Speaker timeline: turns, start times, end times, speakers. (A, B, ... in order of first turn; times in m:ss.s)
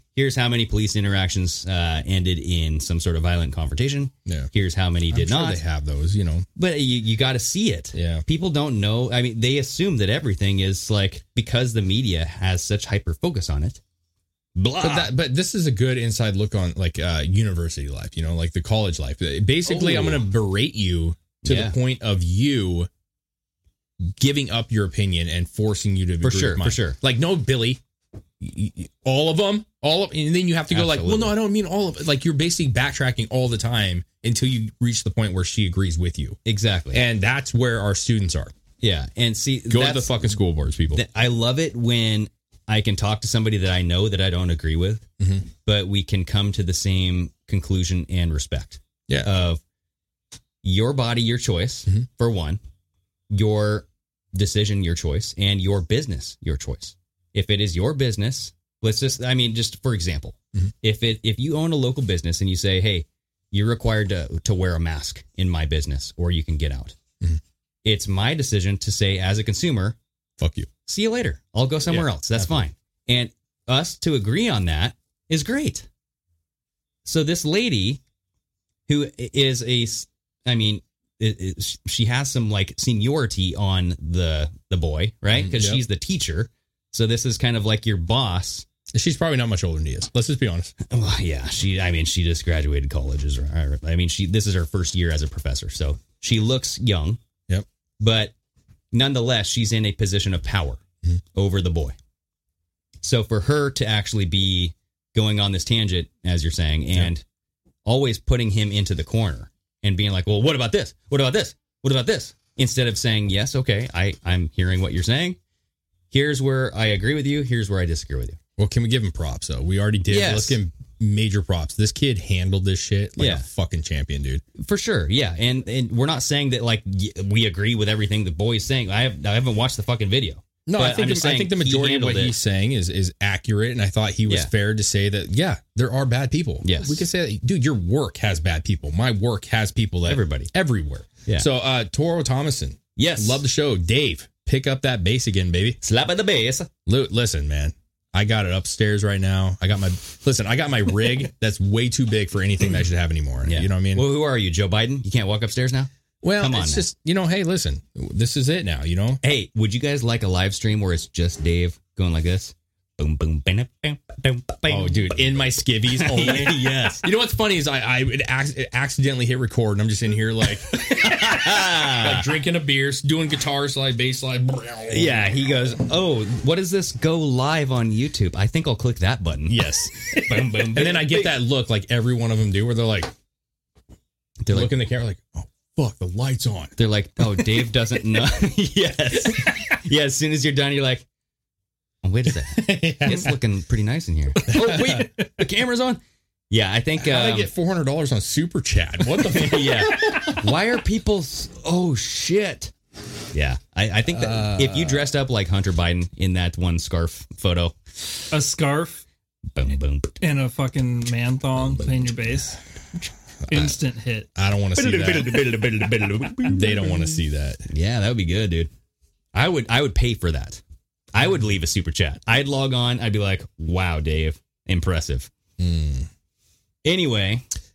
0:00.1-0:05.6 A
0:05.1-0:06.5 B
0:06.6-0:13.8 A
0:07.9-0:08.2 B
0:14.6-0:15.1 A
0:14.8-0:22.9 B
0:19.6-0:20.2 A
0:21.4-0:21.8 A
0:24.0-0:27.8 B
0:26.2-0:27.0 A
0:28.4-0:36.4 B
0:30.7-0:31.4 A
0:36.4-0:37.0 A
0:36.9-0:38.5 B
0:38.8-0:40.3 A
0:39.7-0:41.0 B
0:40.9-0:45.1 A
0:45.2-0:45.5 B
0:45.6-0:49.6 A
0:49.1-0:49.3 B
0:50.6-0:52.6 A
0:53.3-1:07.0 A
1:07.8-1:10.0 A
1:10.4-1:10.7 B
1:10.8-1:15.9 A
1:11.9-1:12.6 B
1:17.0-1:18.0 A
1:18.9-1:28.7 A
1:25.3-1:25.8 B
1:28.9-1:30.7 B
1:30.9-1:37.2 A
1:38.0-1:38.3 A
1:38.9-1:40.8 A
1:41.3-1:42.0 A
1:43.0-1:47.2 A
1:47.8-1:55.4 A
1:56.1-1:58.4 A
1:58.6-2:04.4 B
2:00.1-2:00.6 A
2:03.2-2:03.4 A
2:04.6-2:12.4 A
2:10.6-2:25.8 B
2:16.6-2:17.0 A
2:20.1-2:20.5 A
2:23.0-2:23.4 A
2:25.8-2:26.7 A
2:26.8-2:34.1 B
2:33.4-2:36.9 A
2:36.2-2:39.2 B
2:39.2-2:45.4 A
2:44.7-2:55.7 B
2:45.9-2:47.0 A
2:50.8-2:52.3 A
2:54.9-3:01.4 A
2:59.5-3:03.1 B
3:04.4-3:04.7 A
3:04.5-3:06.7 B
3:06.8-3:11.0 A
3:07.3-3:07.6 B
3:09.2-3:09.6 B
3:12.0-3:17.5 A
3:12.3-3:13.4 B
3:14.4-3:15.3 B
3:17.0-3:20.4 B
3:19.3-3:22.7 A
3:23.3-3:27.8 A
3:24.1-3:25.1 B
3:28.3-3:29.0 C
3:29.5-3:30.2 A
3:30.2-3:32.6 C
3:31.6-3:32.1 A
3:33.4-3:33.8 B
3:33.5-3:34.3 C
3:34.3-3:35.4 B
3:34.8-3:36.8 A
3:36.5-3:37.6 B
3:37.7-3:38.7 A
3:39.3-3:40.6 A
3:41.1-3:45.3 A
3:45.6-3:46.1 B
3:46.8-3:47.5 A